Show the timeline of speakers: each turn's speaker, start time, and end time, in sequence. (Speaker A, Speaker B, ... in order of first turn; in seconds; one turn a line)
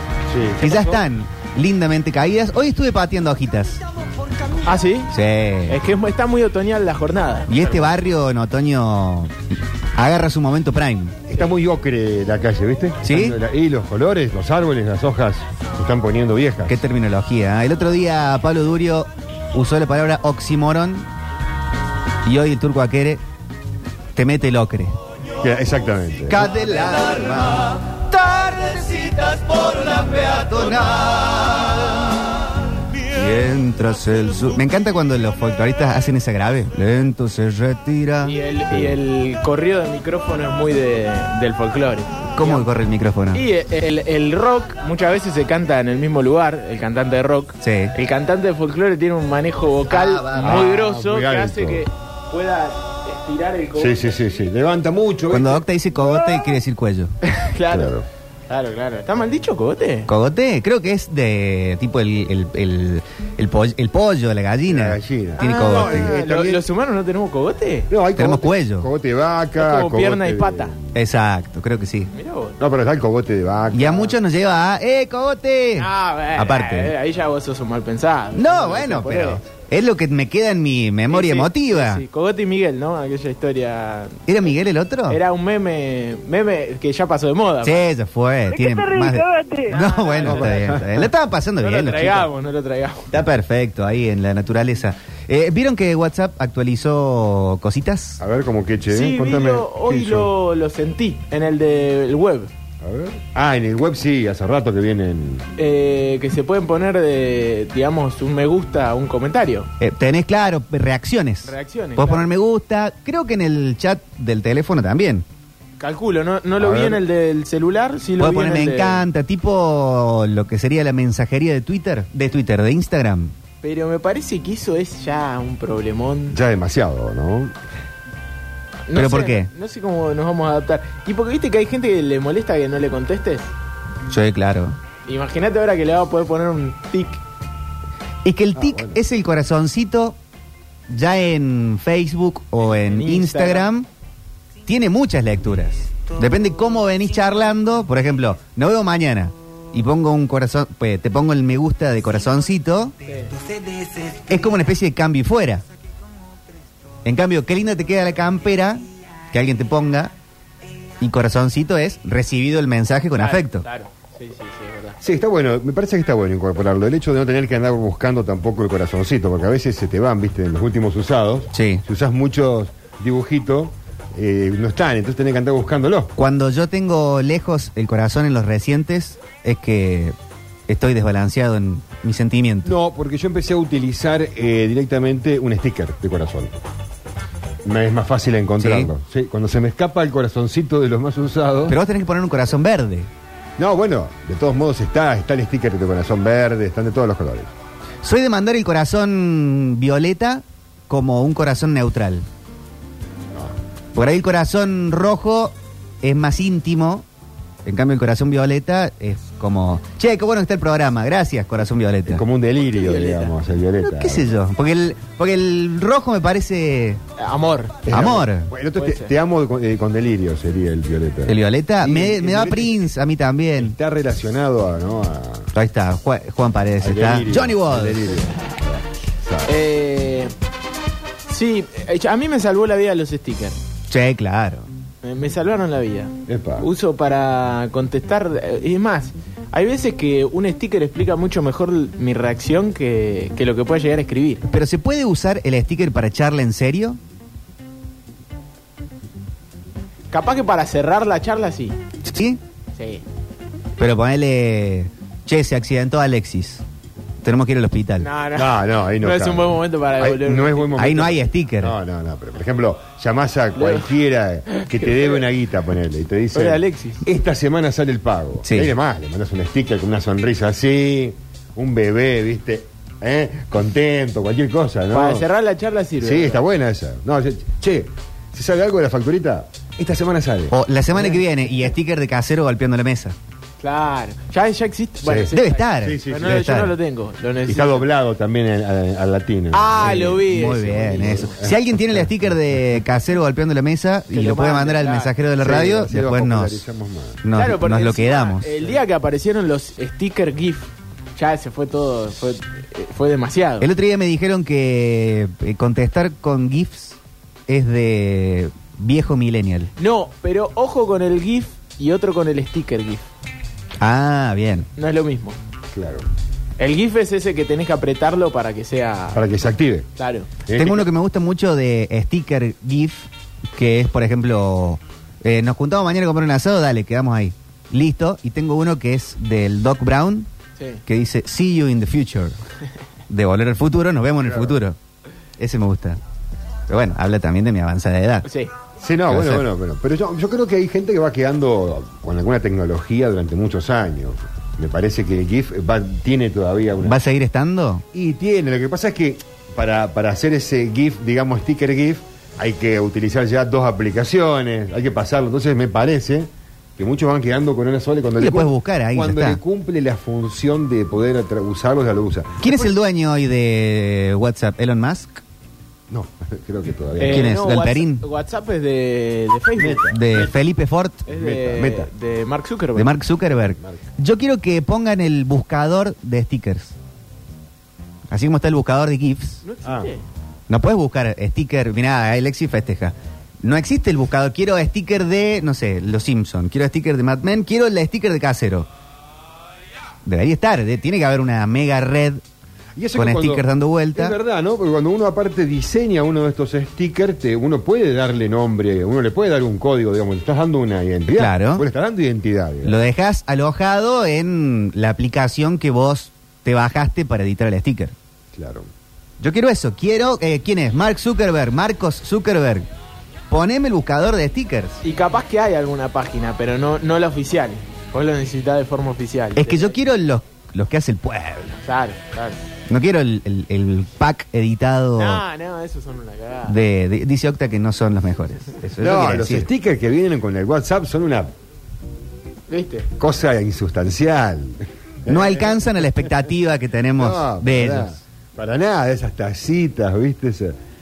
Speaker A: 0.3-1.0
Speaker B: 0.6-3.8
Speaker C: 4.6-5.1
Speaker B: 5.1-5.8
Speaker C: 5.7-7.8
Speaker B: 7.5-9.3
Speaker B: 9.9-11.3
Speaker A: 11.3-16.8
Speaker B: 13.0-13.4
Speaker B: 16.7-21.1
Speaker B: 22.2-23.2
Speaker B: 24.1-24.9
Speaker A: 25.4-26.4
Speaker B: 26.3-32.6
Speaker B: 33.1-38.4
Speaker C: 38.2-42.7
Speaker B: 42.3-43.4
Speaker C: 43.3-54.4
Speaker B: 47.6-47.9
Speaker B: 49.9-50.7
Speaker A: 50.4-51.8
Speaker A: 53.8-55.6
Speaker B: 55.3-57.1
Speaker C: 57.2-57.9
Speaker A: 57.7-58.0
Speaker C: 58.5-60.1
Speaker B: 60.1-66.1
Speaker A: 64.7-66.6
Speaker C: 65.4-67.9
Speaker A: 67.9-70.7
Speaker B: 68.1-68.9
Speaker C: 69.6-70.7
Speaker B: 70.9-72.1
Speaker C: 72.1-72.5
Speaker A: 72.6-74.2
Speaker B: 73.7-76.9
Speaker C: 75.8-79.5
Speaker B: 78.3-82.0
Speaker C: 81.1-84.2
Speaker B: 84.3-85.2
Speaker C: 85.1-87.8
Speaker B: 87.6-92.3
Speaker C: 89.5-90.5
Speaker A: 90.2-91.0
Speaker C: 91.6-93.1
Speaker B: 93.1-98.2
Speaker A: 98.2-100.3
Speaker C: 98.9-102.5
Speaker A: 102.8-105.4
Speaker C: 105.6-109.7
Speaker B: 109.8-115.2
Speaker C: 111.5-112.2
Speaker C: 115.8-119.0
Speaker A: 116.6-117.0
Speaker B: 118.2-123.3
Speaker C: 123.6-126.4
Speaker A: 126.3-127.5
Speaker C: 128.9-133.5
Speaker B: 128.9-129.5
Speaker B: 134.1-134.8
Speaker C: 135.1-137.2
Speaker B: 138.2-140.2
Speaker A: 138.6-138.9
Speaker B: 140.9-143.9
Speaker C: 142.7-143.7
Speaker B: 144.7-152.9
Speaker B: 154.2-155.6
Speaker B: 157.0-160.1
Speaker B: 161.0-163.6
Speaker C: 163.2-165.0
Speaker A: 165.0-176.1
Speaker B: 171.5-171.8
Speaker B: 176.2-180.1
Speaker B: 180.7-182.7
Speaker A: 182.6-186.5
Speaker A: 187.6-191.8
Speaker B: 188.6-188.9
Speaker B: 191.7-193.1
Speaker A: 193.6-197.5
Speaker B: 198.0-202.2
Speaker B: 203.9-207.0
Speaker B: 207.6-212.2
Speaker A: 212.1-214.3
Speaker C: 212.7-213.3
Speaker B: 213.8-217.0
Speaker C: 217.2-217.8
Speaker A: 217.8-222.7
Speaker B: 217.9-218.5
Speaker C: 218.8-219.1
Speaker B: 221.3-223.7
Speaker A: 223.6-225.5
Speaker B: 225.5-228.2
Speaker A: 226.8-229.5
Speaker C: 229.4-230.3
Speaker C: 231.3-233.6
Speaker B: 233.9-234.7
Speaker C: 235.0-244.4
Speaker A: 236.3-236.7
Speaker B: 244.4-247.0
Speaker C: 250.1-251.8
Speaker B: 252.0-252.4
Speaker C: 252.8-253.0
Speaker B: 253.8-256.6
Speaker B: 257.2-258.1
Speaker C: 258.0-260.9
Speaker A: 258.3-275.2
Speaker B: 260.8-261.8
Speaker C: 263.5-264.0
Speaker C: 264.5-265.3
Speaker C: 266.3-267.0
Speaker B: 268.4-268.7
Speaker C: 274.9-276.4
Speaker A: 276.0-280.6
Speaker B: 280.5-283.1
Speaker C: 280.9-281.2
Speaker C: 283.6-287.9
Speaker A: 285.0-286.4
Speaker B: 285.3-286.8
Speaker A: 287.4-292.0
Speaker C: 289.5-291.3
Speaker B: 289.8-296.6
Speaker C: 294.1-295.1
Speaker A: 295.4-297.2
Speaker B: 297.2-298.5
Speaker C: 297.3-303.7
Speaker B: 303.6-309.7
Speaker C: 309.8-313.1
Speaker B: 313.8-314.7
Speaker C: 314.8-315.4
Speaker A: 315.7-316.1
Speaker C: 316.6-319.3
Speaker A: 319.1-319.9
Speaker C: 320.0-320.3
Speaker A: 320.5-320.9
Speaker B: 320.6-330.3
Speaker B: 330.9-332.4
Speaker B: 333.1-334.8
Speaker A: 334.2-334.5
Speaker B: 335.4-336.0
Speaker B: 336.7-338.2
Speaker C: 338.2-338.5
Speaker A: 338.8-347.0
Speaker B: 339.1-339.4
Speaker B: 346.8-347.8
Speaker A: 347.9-362.6
Speaker B: 358.2-359.4
Speaker B: 362.4-365.2
Speaker A: 365.9-367.3
Speaker C: 367.0-369.8
Speaker B: 367.1-368.0
Speaker A: 369.6-370.3
Speaker B: 369.9-371.0
Speaker A: 371.1-371.9
Speaker C: 371.1-372.9
Speaker B: 372.7-376.7
Speaker B: 378.1-379.4
Speaker C: 379.4-380.0
Speaker A: 379.6-379.9
Speaker B: 380.5-388.7
Speaker B: 390.0-392.2
Speaker A: 392.8-393.4
Speaker B: 392.9-394.2
Speaker A: 393.9-402.8
Speaker B: 401.1-401.6
Speaker B: 402.6-407.9
Speaker A: 408.3-408.7
Speaker B: 409.2-412.7
Speaker B: 413.3-414.8
Speaker C: 414.8-419.7
Speaker B: 419.4-421.6
Speaker C: 421.6-422.4
Speaker B: 422.7-425.2
Speaker C: 424.9-426.6
Speaker B: 426.4-429.5
Speaker A: 428.8-431.3
Speaker C: 432.5-432.9
Speaker A: 433.0-435.8
Speaker B: 435.1-437.9
Speaker A: 437.0-440.6